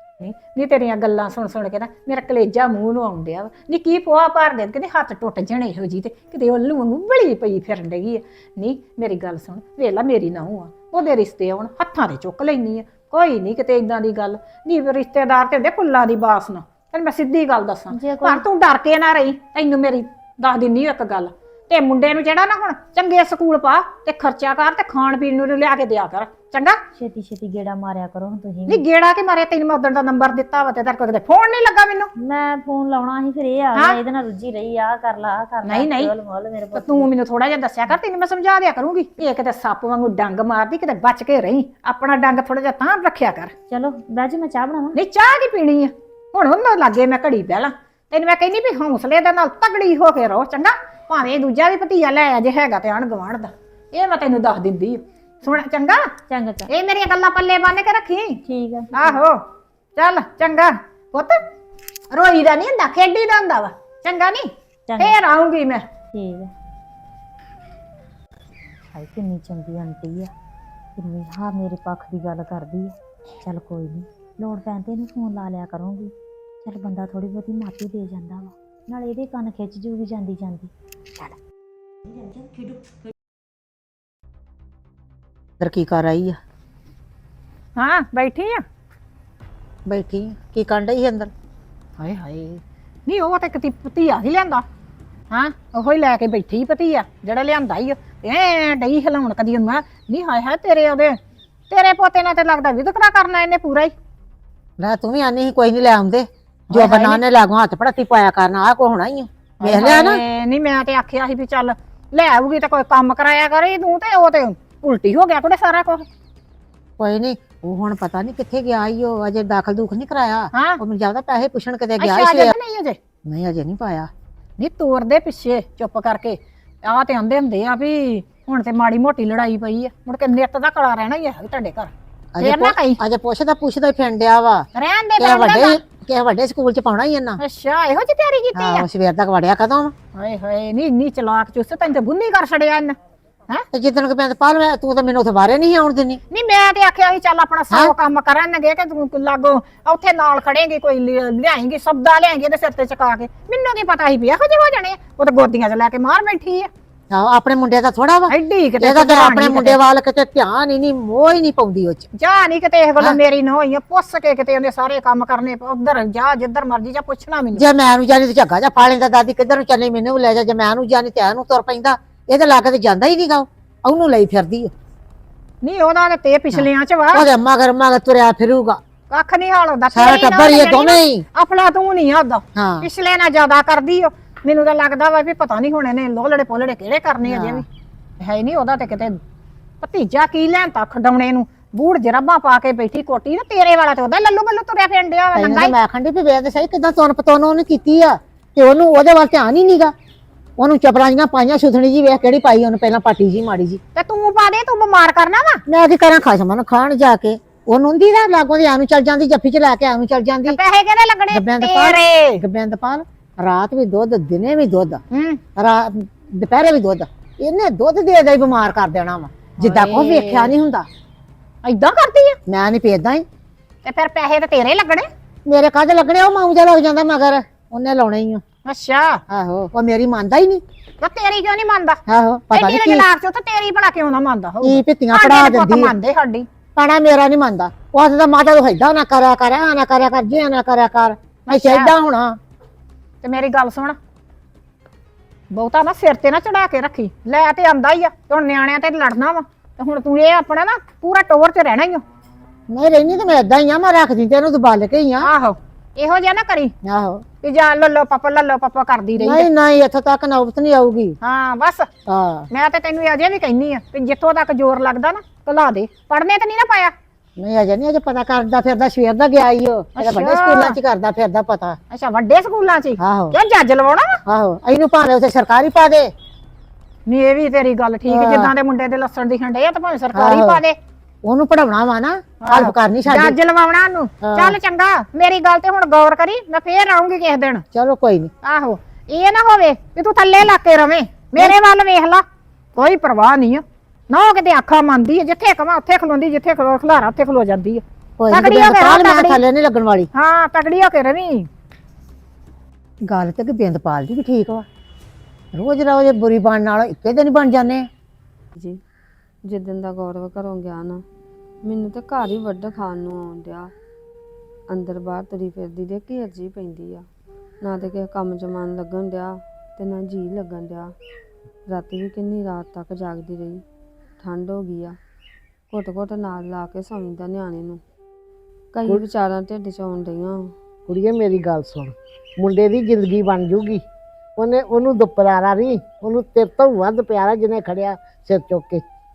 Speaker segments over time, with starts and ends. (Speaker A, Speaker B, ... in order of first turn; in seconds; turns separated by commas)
Speaker A: 0.2-26.8, Speaker B: 17.9-18.5, Speaker B: 27.0-28.9, Speaker A: 28.7-32.1, Speaker B: 32.2-37.1, Speaker A: 35.6-36.1, Speaker A: 36.7-43.5, Speaker B: 43.7-45.0, Speaker A: 44.9-56.0, Speaker B: 56.3-56.7, Speaker A: 56.7-58.4, Speaker B: 58.5-59.2, Speaker A: 58.9-59.4, Speaker A: 60.0-61.4, Speaker A: 62.1-65.8, Speaker B: 64.9-65.2, Speaker B: 66.1-66.5, Speaker B: 68.9-70.3, Speaker B: 71.0-76.1, Speaker B: 76.6-81.4, Speaker B: 82.1-82.8, Speaker C: 85.6-86.4, Speaker A: 87.8-88.6, Speaker C: 89.9-91.3, Speaker A: 92.0-94.7, Speaker A: 95.3-101.2, Speaker A: 101.7-103.9, Speaker C: 104.8-110.2, Speaker A: 106.7-107.2, Speaker A: 109.6-116.0, Speaker C: 117.0-122.5, Speaker A: 120.5-120.8, Speaker A: 122.0-123.0, Speaker C: 123.3-124.1, Speaker A: 124.6-133.0, Speaker C: 132.3-134.7, Speaker A: 134.8-135.8, Speaker C: 135.2-137.4, Speaker A: 137.4-138.9, Speaker C: 138.6-139.9, Speaker A: 140.1-143.0, Speaker C: 143.7-146.2, Speaker A: 146.3-156.7, Speaker C: 157.1-162.1, Speaker A: 158.3-159.8, Speaker A: 162.2-167.7, Speaker C: 167.6-174.7, Speaker A: 175.6-177.3, Speaker C: 176.5-178.8, Speaker A: 179.1-187.7, Speaker C: 179.9-181.2, Speaker C: 182.6-182.9, Speaker C: 187.2-187.6, Speaker A: 188.2-189.2, Speaker A: 189.8-195.8, Speaker C: 195.3-199.9, Speaker C: 200.6-203.8, Speaker A: 203.9-205.6, Speaker C: 205.7-210.6, Speaker A: 210.5-212.4, Speaker C: 211.3-215.0, Speaker A: 215.1-215.4, Speaker C: 215.6-220.9, Speaker A: 219.6-220.5, Speaker A: 221.6-222.4, Speaker C: 222.5-223.2, Speaker A: 223.8-225.1, Speaker C: 225.5-228.4, Speaker A: 228.7-229.2, Speaker C: 229.3-230.6, Speaker A: 231.0-232.0, Speaker C: 232.1-233.1, Speaker A: 232.5-236.5, Speaker C: 234.6-235.9, Speaker C: 236.8-242.4, Speaker A: 241.5-241.9, Speaker A: 243.2-244.0, Speaker A: 245.5-252.0, Speaker C: 252.7-255.3, Speaker A: 255.2-256.7, Speaker C: 256.8-257.2, Speaker A: 257.4-259.5, Speaker C: 259.2-261.2, Speaker A: 261.2-261.9, Speaker C: 262.1-262.5, Speaker A: 262.5-266.9, Speaker C: 267.4-271.8, Speaker A: 270.0-270.8, Speaker A: 271.9-274.2, Speaker C: 273.0-273.4, Speaker C: 274.3-276.1, Speaker A: 277.1-280.8, Speaker C: 278.1-278.5, Speaker C: 280.1-280.6, Speaker C: 281.2-283.4, Speaker A: 282.4-287.7, Speaker C: 284.2-284.6, Speaker C: 287.7-288.3, Speaker A: 288.4-292.2, Speaker A: 292.8-299.4, Speaker C: 298.2-300.1, Speaker A: 300.1-301.5, Speaker C: 303.1-304.6, Speaker C: 305.5-307.9, Speaker D: 309.4-311.0, Speaker D: 311.6-313.7, Speaker D: 314.7-317.1, Speaker D: 317.6-320.9, Speaker D: 321.7-323.6, Speaker D: 324.2-325.0, Speaker D: 325.7-327.8, Speaker D: 328.7-330.5, Speaker E: 330.9-333.8, Speaker E: 334.4-338.8